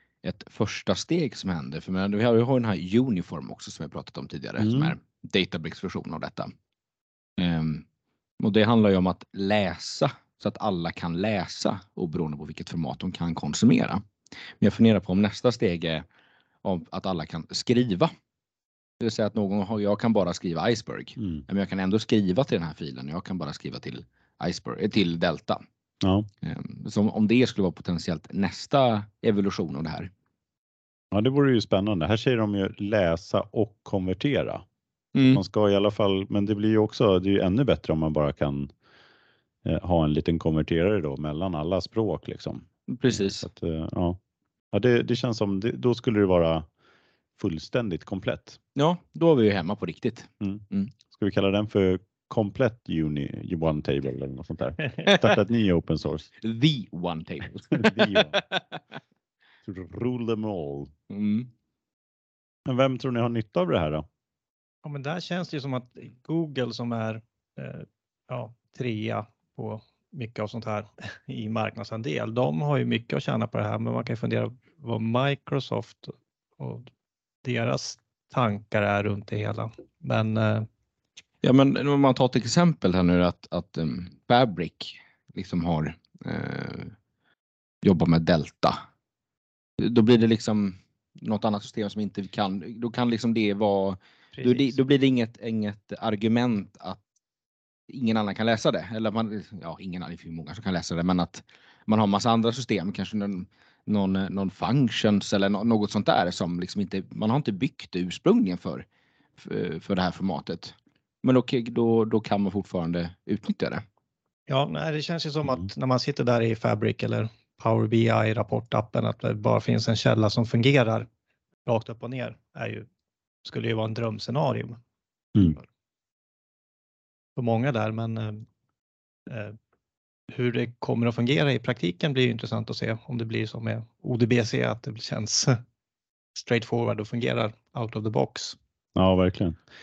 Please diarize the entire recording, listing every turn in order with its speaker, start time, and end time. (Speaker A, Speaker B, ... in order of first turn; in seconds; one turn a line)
Speaker A: 0.2-6.5
Speaker B: 4.6-5.0
Speaker A: 7.4-7.8
Speaker A: 8.4-14.0
Speaker A: 14.6-16.1
Speaker A: 16.6-18.1
Speaker A: 19.0-25.6
Speaker B: 21.2-21.4
Speaker B: 26.0-26.3
Speaker A: 26.4-30.1
Speaker B: 31.1-34.6
Speaker A: 35.1-35.4
Speaker B: 35.3-38.7
Speaker B: 39.6-44.2
Speaker A: 42.9-43.5
Speaker B: 44.7-46.7
Speaker B: 47.4-48.6
Speaker A: 48.8-50.9
Speaker B: 50.4-56.3
Speaker A: 56.4-58.8
Speaker B: 57.8-58.3
Speaker B: 59.7-60.9
Speaker A: 61.1-61.5
Speaker B: 62.7-64.1
Speaker C: 64.8-76.9
Speaker C: 77.4-80.7
Speaker A: 81.4-86.9
Speaker A: 87.8-88.8
Speaker A: 89.8-97.0
Speaker C: 94.4-94.8
Speaker A: 97.9-108.8
Speaker A: 109.4-113.8
Speaker C: 114.5-121.1
Speaker C: 121.7-122.9
Speaker C: 123.4-124.8
Speaker C: 127.4-128.4
Speaker C: 129.3-129.6
Speaker C: 130.3-135.6
Speaker C: 136.4-138.6
Speaker B: 139.0-139.6